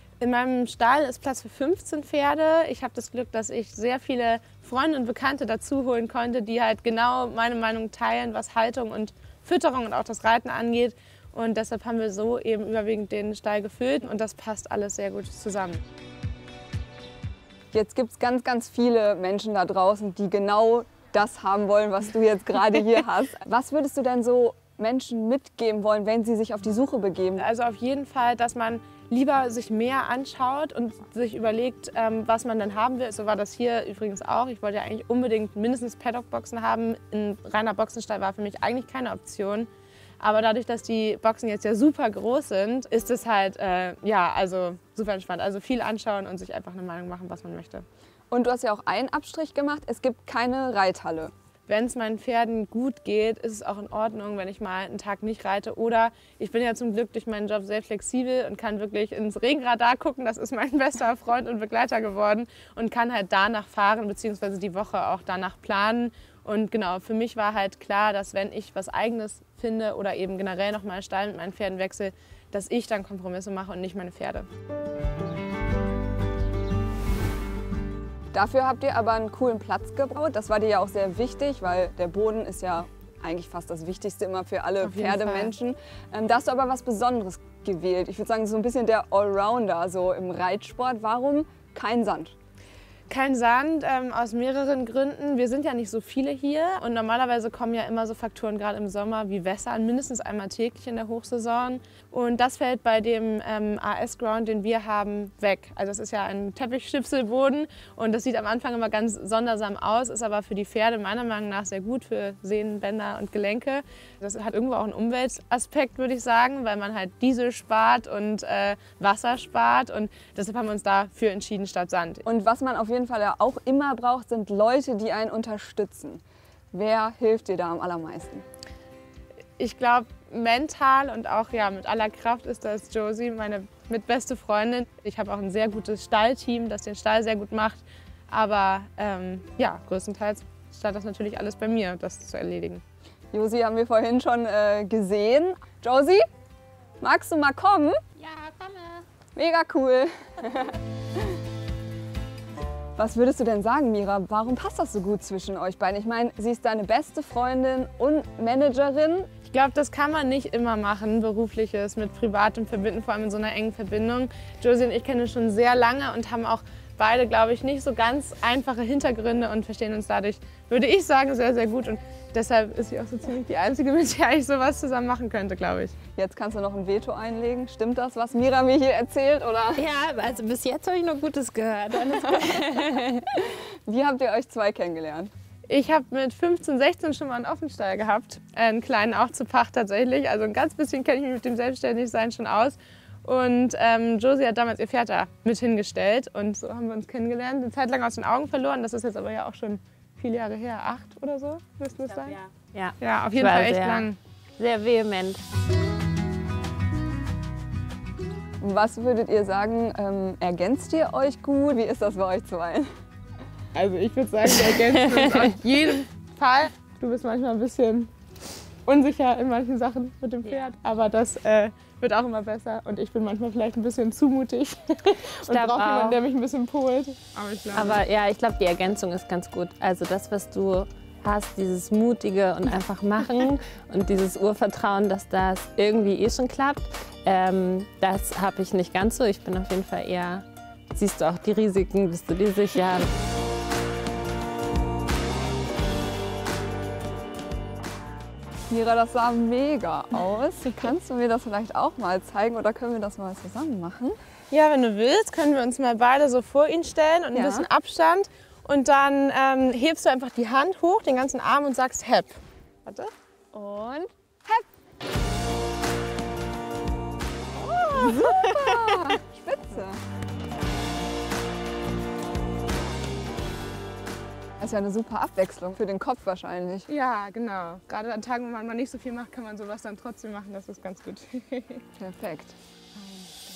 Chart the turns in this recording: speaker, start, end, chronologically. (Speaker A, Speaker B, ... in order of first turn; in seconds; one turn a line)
Speaker A: 0.2-15.8
Speaker B: 17.7-27.5
Speaker A: 27.4-39.7
Speaker A: 40.2-47.8
Speaker B: 48.3-51.3
Speaker A: 51.7-74.5
Speaker B: 78.3-92.3
Speaker A: 84.8-85.5
Speaker A: 93.1-122.2
Speaker B: 122.2-128.4
Speaker A: 129.6-142.8
Speaker B: 143.3-146.2
Speaker B: 147.0-148.0
Speaker C: 148.2-149.0
Speaker B: 149.3-150.8
Speaker B: 153.0-159.3
Speaker A: 159.4-175.9
Speaker B: 176.2-179.8
Speaker C: 179.8-183.4
Speaker B: 182.3-185.3
Speaker A: 185.7-202.4
Speaker C: 202.1-205.4
Speaker A: 203.0-204.2
Speaker B: 208.6-212.9
Speaker A: 213.7-218.1
Speaker C: 214.7-215.6
Speaker A: 218.8-228.0
Speaker C: 220.4-220.8
Speaker C: 225.4-226.2
Speaker C: 227.7-243.1
Speaker B: 248.7-254.1
Speaker A: 254.5-263.1
Speaker B: 257.3-257.7
Speaker B: 263.5-264.6
Speaker A: 267.5-269.1
Speaker B: 267.9-270.0
Speaker B: 274.6-276.9
Speaker A: 276.9-281.8
Speaker B: 282.0-282.5